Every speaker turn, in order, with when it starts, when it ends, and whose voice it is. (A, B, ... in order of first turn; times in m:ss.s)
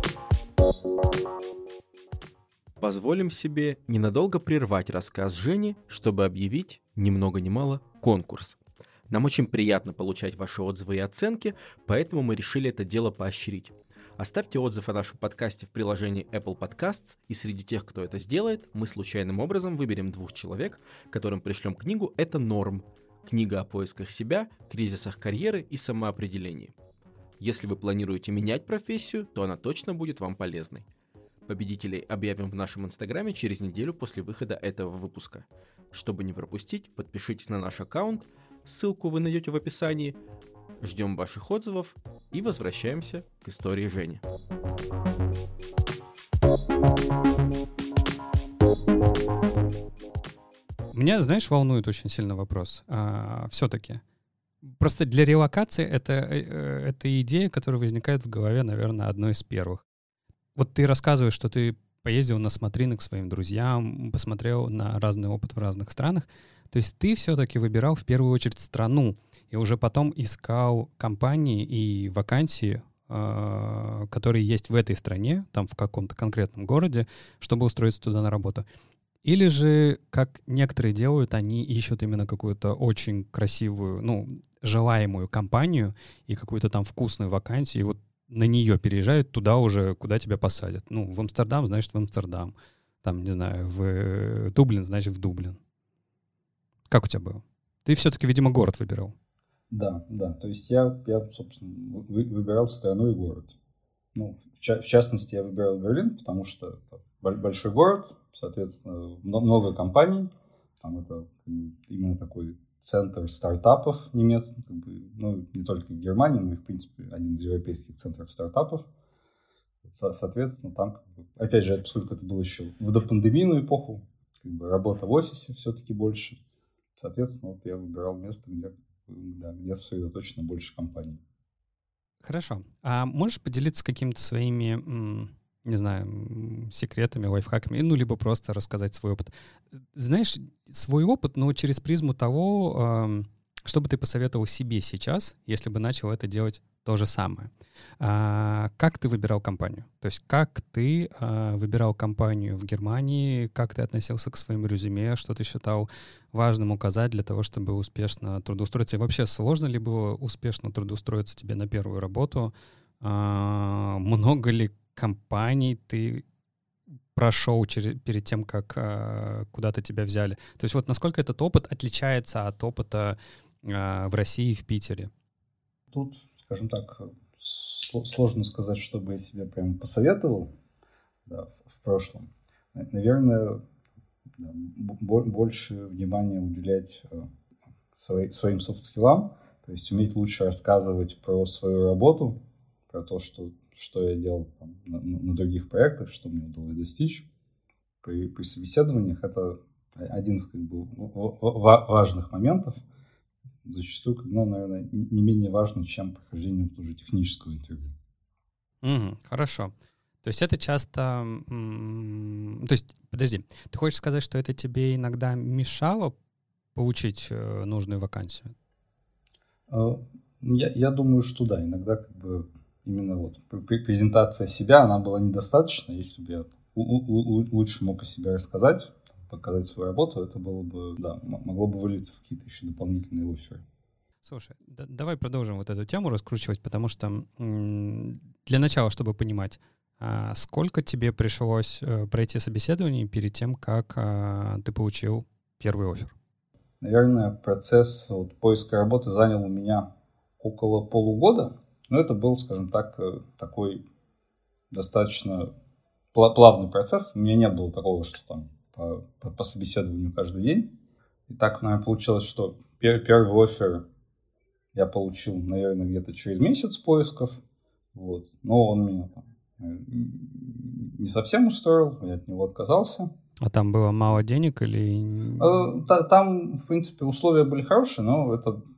0:02.8-0:08.6 A
0:09.1-0:26.7 A
0:27.4-0:30.9 A
0:31.5-0:40.2 A
0:40.8-0:44.2 A
0:50.9-0:54.0 B
0:54.6-0:59.8 B
1:00.6-1:18.7 B
1:19.2-1:35.6 B
1:36.9-1:39.2 B
1:39.7-1:43.5 C
1:44.1-1:58.9 C
1:59.8-2:06.4 C
2:07.0-2:11.2 C
2:12.2-2:46.2 B
2:47.2-2:55.1 B
2:55.9-3:00.5 C
3:01.3-3:03.6 C
3:04.4-3:07.3 C
3:07.9-3:12.4 C
3:12.9-3:17.3 C
3:18.0-3:22.8 C
3:23.6-3:28.0 C
3:28.8-3:36.2 B
3:36.8-3:38.6 B
3:39.7-3:53.6 C
3:54.2-4:06.1 B
4:06.8-4:09.9 C
4:10.4-4:13.8 C
4:14.7-4:15.5 C
4:16.1-4:20.7 C
4:21.3-4:23.9 C
4:24.7-4:27.4 C
4:27.9-4:33.1 C
4:33.4-4:35.7 B
4:35.4-4:38.6 C